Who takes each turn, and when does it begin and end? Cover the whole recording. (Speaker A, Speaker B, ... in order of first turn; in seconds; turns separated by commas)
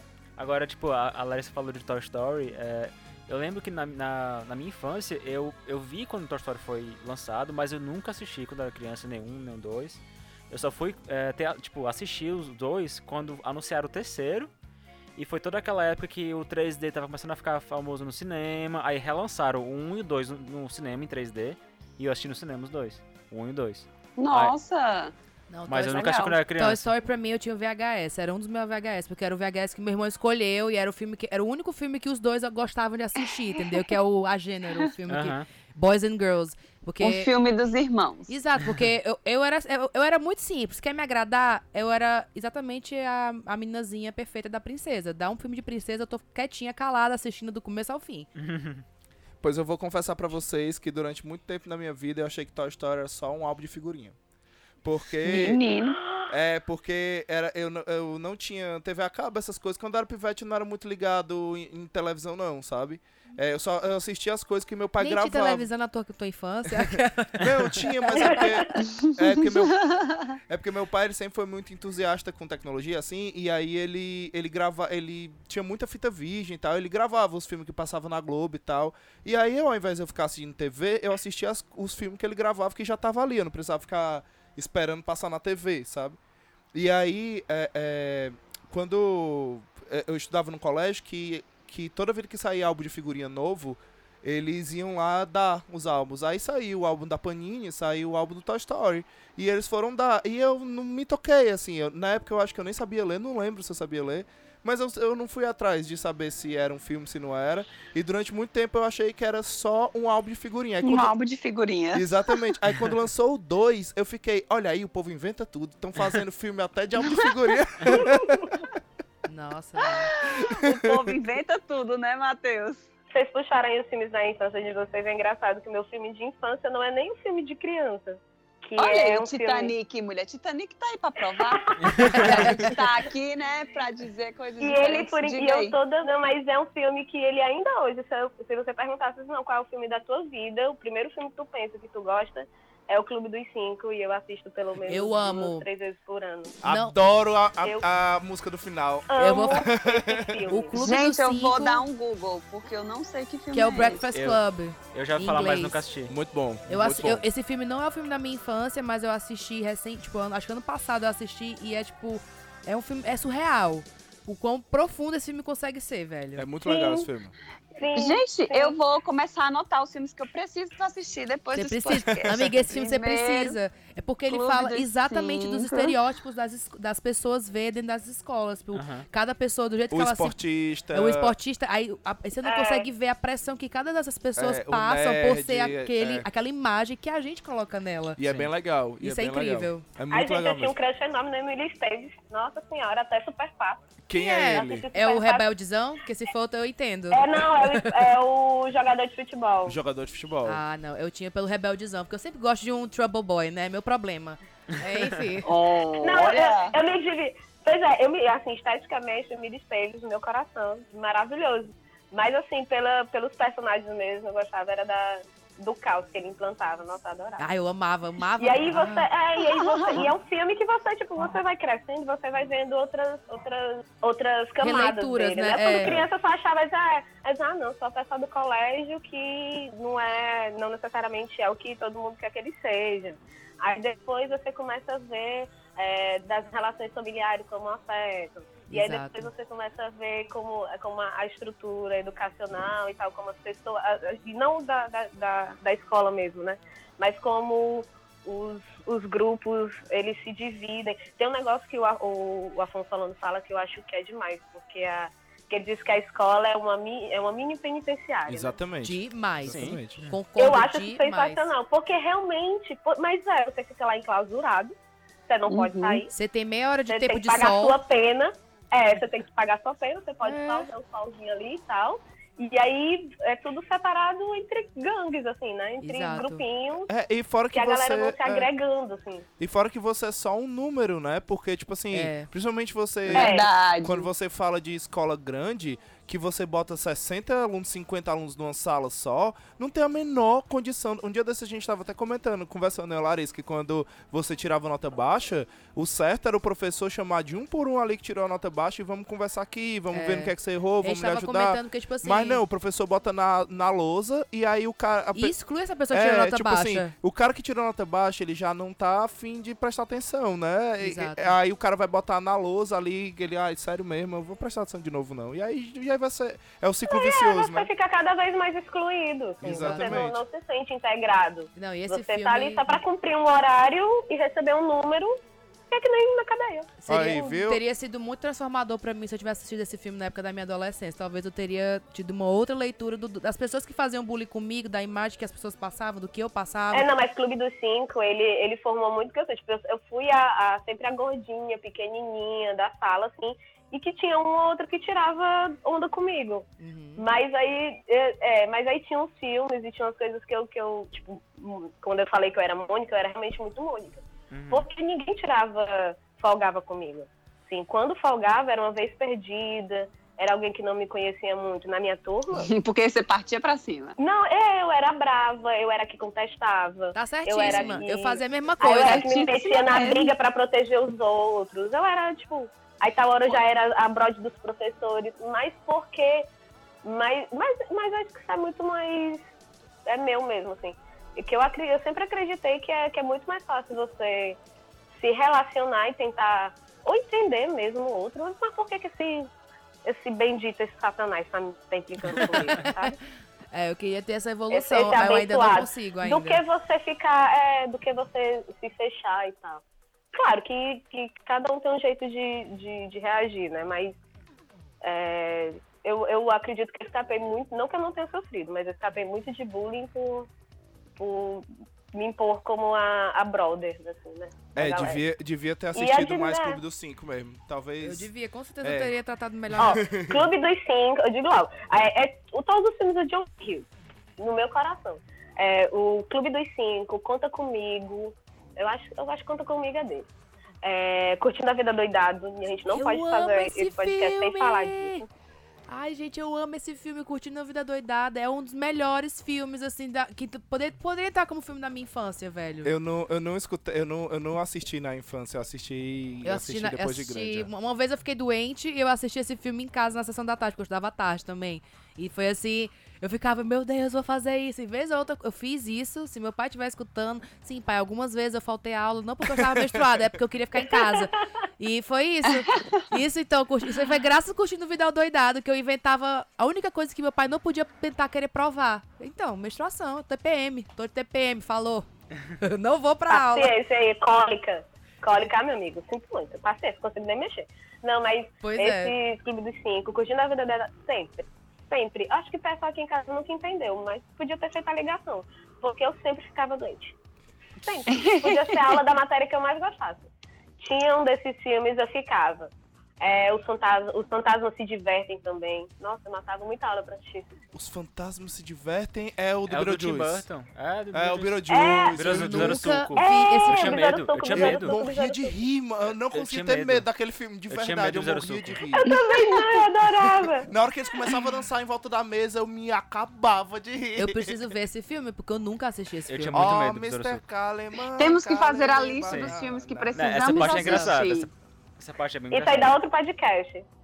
Speaker A: 0.4-14.5, Speaker A: 15.2-24.6, Speaker B: 24.2-25.1, Speaker C: 25.5-37.3, Speaker A: 25.7-26.9, Speaker B: 25.9-26.4, Speaker B: 33.2-33.9, Speaker A: 35.1-35.5, Speaker B: 37.0-38.3, Speaker C: 38.3-48.3, Speaker A: 48.4-48.8, Speaker D: 49.4-54.2, Speaker D: 54.8-55.6, Speaker B: 55.2-56.0, Speaker D: 56.3-65.7, Speaker C: 65.0-68.4, Speaker D: 66.7-86.2, Speaker E: 68.1-68.8, Speaker B: 68.9-70.2, Speaker D: 86.7-111.2, Speaker B: 110.8-112.4, Speaker D: 111.9-118.6, Speaker E: 117.9-118.5, Speaker C: 119.3-120.1, Speaker B: 119.8-122.9, Speaker D: 120.3-121.2, Speaker E: 123.1-129.7, Speaker B: 128.8-135.8, Speaker E: 131.3-132.8, Speaker E: 134.6-146.6, Speaker C: 144.9-145.7, Speaker D: 146.6-150.5, Speaker C: 146.7-146.9, Speaker E: 149.1-150.8, Speaker C: 149.2-149.7, Speaker C: 150.5-151.8, Speaker B: 150.8-154.0, Speaker C: 153.5-155.8, Speaker A: 154.9-156.2, Speaker D: 156.1-157.2, Speaker C: 156.7-166.5, Speaker D: 166.4-167.3, Speaker E: 166.7-167.1, Speaker E: 167.8-168.8, Speaker B: 167.9-173.6, Speaker C: 171.5-180.4, Speaker B: 174.3-176.0, Speaker A: 178.7-179.1, Speaker D: 179.9-181.4, Speaker C: 180.9-188.2, Speaker E: 182.4-182.9, Speaker D: 184.4-186.3, Speaker D: 188.2-190.8, Speaker A: 188.2-188.5, Speaker C: 189.0-189.8, Speaker E: 190.1-193.8, Speaker D: 194.1-194.9, Speaker C: 194.1-198.0, Speaker E: 194.5-195.5, Speaker E: 197.1-199.8, Speaker D: 199.7-200.6, Speaker C: 200.5-205.5, Speaker B: 205.4-206.8, Speaker E: 205.9-217.5, Speaker C: 217.4-219.1, Speaker E: 218.4-258.6, Speaker B: 219.4-220.1, Speaker C: 224.6-226.1, Speaker C: 238.7-239.3, Speaker D: 258.3-260.0, Speaker C: 258.8-261.5, Speaker A: 259.4-260.2, Speaker E: 260.4-264.7, Speaker E: 265.3-266.1, Speaker B: 265.5-266.0, Speaker C: 266.1-267.8, Speaker E: 266.9-276.9, Speaker C: 270.2-270.7, Speaker C: 275.8-276.4, Speaker D: 276.9-278.5, Speaker E: 277.5-279.3, Speaker D: 279.4-305.4, Speaker C: 281.9-282.3, Speaker B: 283.1-284.1, Speaker E: 283.1-283.5, Speaker C: 299.9-302.4, Speaker C: 305.1-306.9, Speaker D: 305.9-317.7, Speaker C: 310.8-311.4, Speaker E: 316.9-325.2, Speaker D: 319.4-320.2, Speaker C: 319.4-320.1, Speaker C: 321.6-322.8, Speaker E: 325.7-326.8, Speaker C: 326.8-336.9, Speaker D: 326.9-327.6, Speaker E: 336.7-362.5, Speaker C: 346.6-347.1, Speaker A: 354.3-354.7, Speaker B: 362.3-364.0, Speaker E: 364.0-376.3, Speaker C: 366.9-369.1, Speaker B: 368.6-370.1, Speaker E: 376.8-379.2, Speaker E: 379.9-384.4, Speaker E: 384.9-389.3, Speaker E: 389.8-393.0, Speaker C: 392.6-392.9, Speaker C: 393.5-396.4, Speaker E: 394.5-404.0, Speaker E: 404.8-410.3, Speaker E: 411.0-415.0, Speaker D: 414.6-418.1, Speaker E: 415.8-416.6, Speaker C: 417.8-419.8, Speaker D: 418.6-418.9, Speaker E: 419.6-423.7, Speaker D: 419.6-420.3, Speaker E: 424.2-430.1, Speaker E: 430.6-435.1, Speaker C: 432.7-435.1, Speaker C: 435.7-442.7, Speaker D: 442.6-447.5, Speaker C: 446.2-471.9, Speaker D: 459.2-460.0, Speaker B: 462.3-462.8, Speaker C: 472.4-473.6, Speaker E: 473.1-487.0, Speaker C: 478.4-478.9, Speaker E: 487.6-490.1, Speaker B: 487.9-488.8, Speaker E: 490.6-497.4, Speaker D: 497.5-500.2, Speaker A: 499.5-504.8, Speaker D: 500.9-502.9, Speaker E: 501.5-502.0, Speaker C: 502.2-503.9, Speaker E: 503.0-505.4, Speaker D: 504.3-508.9, Speaker A: 506.1-506.9, Speaker A: 507.5-508.6, Speaker E: 508.7-510.5, Speaker B: 508.9-509.6, Speaker D: 510.5-514.4, Speaker C: 514.0-516.6, Speaker A: 516.1-517.2, Speaker D: 516.3-520.9, Speaker B: 518.0-521.3, Speaker A: 519.0-519.4, Speaker A: 519.9-522.8, Speaker E: 522.3-523.6